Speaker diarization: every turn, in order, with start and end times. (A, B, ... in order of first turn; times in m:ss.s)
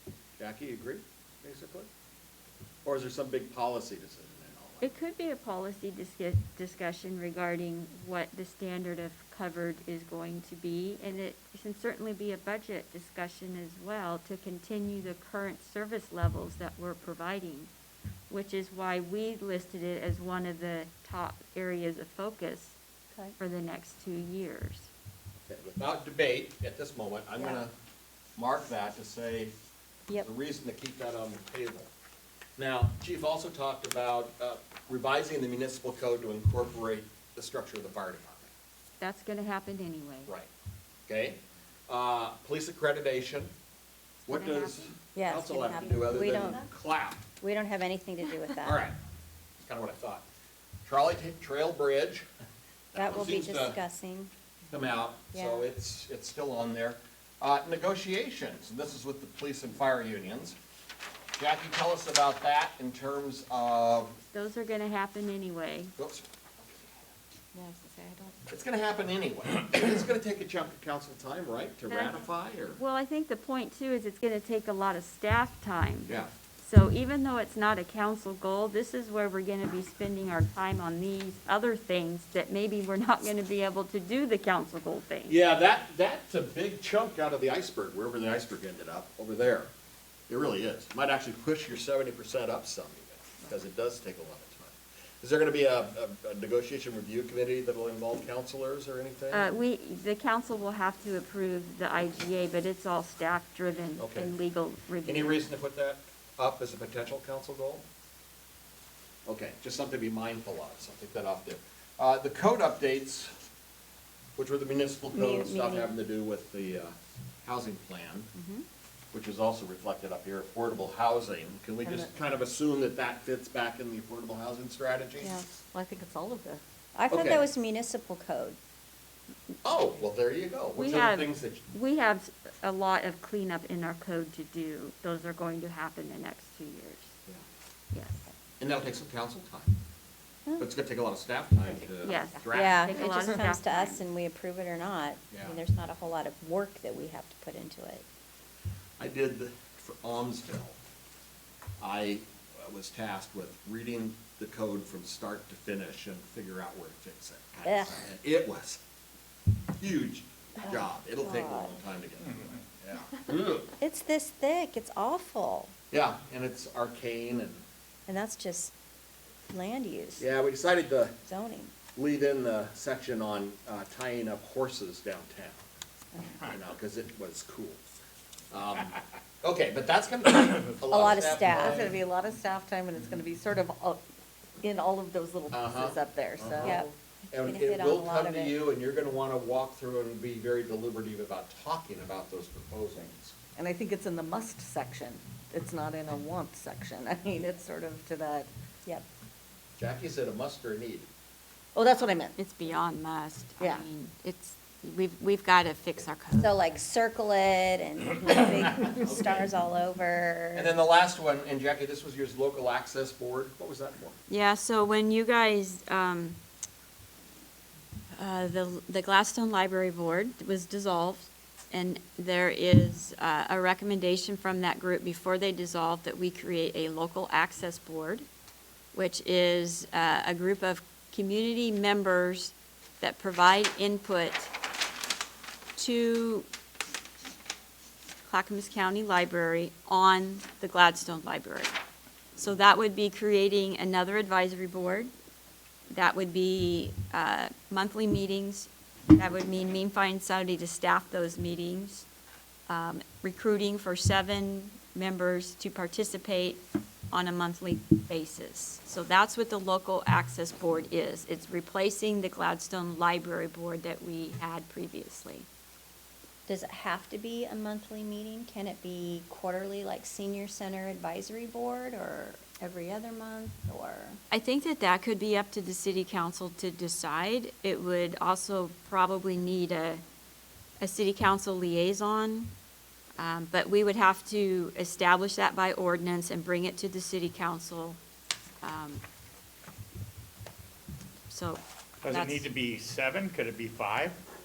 0:00.4-0:01.9 A
0:02.8-0:04.9 A
0:04.8-0:17.7 B
0:18.3-0:22.8 B
0:23.4-0:24.9 B
0:25.5-0:27.7 A
0:28.4-0:29.5 A
0:30.2-0:31.9 A
0:32.6-0:38.5 A
0:39.0-0:40.3 B
0:41.1-0:43.5 A
0:44.2-0:45.0 B
0:44.3-0:47.2 A
0:45.2-0:46.6 C
0:47.4-0:48.8 C
0:48.6-0:49.0 A
0:49.6-0:50.2 A
0:50.8-0:52.3 A
0:52.9-0:53.8 A
0:53.0-0:54.3 C
0:54.7-1:00.6 A
0:55.3-0:55.6 C
1:01.4-1:04.2 A
1:04.3-1:05.9 B
1:06.0-1:06.3 A
1:07.6-1:08.3 C
1:08.5-1:12.8 A
1:11.9-1:25.4 B
1:25.3-1:29.7 A
1:30.3-1:39.5 A
1:39.3-1:45.5 B
1:44.0-1:44.3 A
1:45.1-1:47.8 A
1:49.3-1:53.3 A
1:54.4-1:58.3 A
1:55.1-1:55.9 C
1:59.1-2:05.3 A
2:01.8-2:02.1 D
2:05.2-2:06.6 D
2:07.0-2:08.6 C
2:07.1-2:07.5 A
2:09.6-2:11.6 A
2:10.8-2:17.1 B
2:17.9-2:18.3 B
2:18.6-2:19.8 A
2:20.6-2:22.9 A
2:22.0-2:24.0 B
2:22.5-2:28.1 C
2:25.3-2:25.6 A
2:29.0-2:30.8 A
2:31.8-2:38.8 A
2:37.6-2:38.0 C
2:39.8-2:43.7 A
2:40.6-2:41.8 C
2:43.8-2:45.7 C
2:45.9-2:47.6 A
2:48.1-2:48.7 C
2:49.5-2:50.3 C
2:50.2-2:51.2 A
2:51.2-2:51.7 C
2:52.0-2:55.6 A
2:56.4-2:57.8 A
2:58.5-3:01.9 A
3:00.9-3:01.8 C
3:01.5-3:04.0 D
3:04.6-3:06.9 D
3:05.5-3:13.4 A
3:06.6-3:08.6 C
3:13.6-3:18.5 D
3:19.8-3:21.1 A
3:21.8-3:22.4 D
3:22.4-3:26.6 B
3:26.4-3:30.8 C
3:28.8-3:29.5 A
3:30.5-3:34.2 A
3:34.3-3:36.4 B
3:38.1-3:48.3 B
3:48.9-3:54.5 B
3:55.8-3:56.5 B
3:58.3-4:01.8 B
4:02.4-4:05.1 B
4:05.9-4:12.1 B
4:12.7-4:25.5 B
4:26.5-4:34.2 C
4:34.3-4:40.0 B
4:40.8-4:42.5 B
4:43.2-4:48.0 B
4:48.6-4:49.0 B
4:51.3-4:52.5 B
4:52.0-4:54.2 E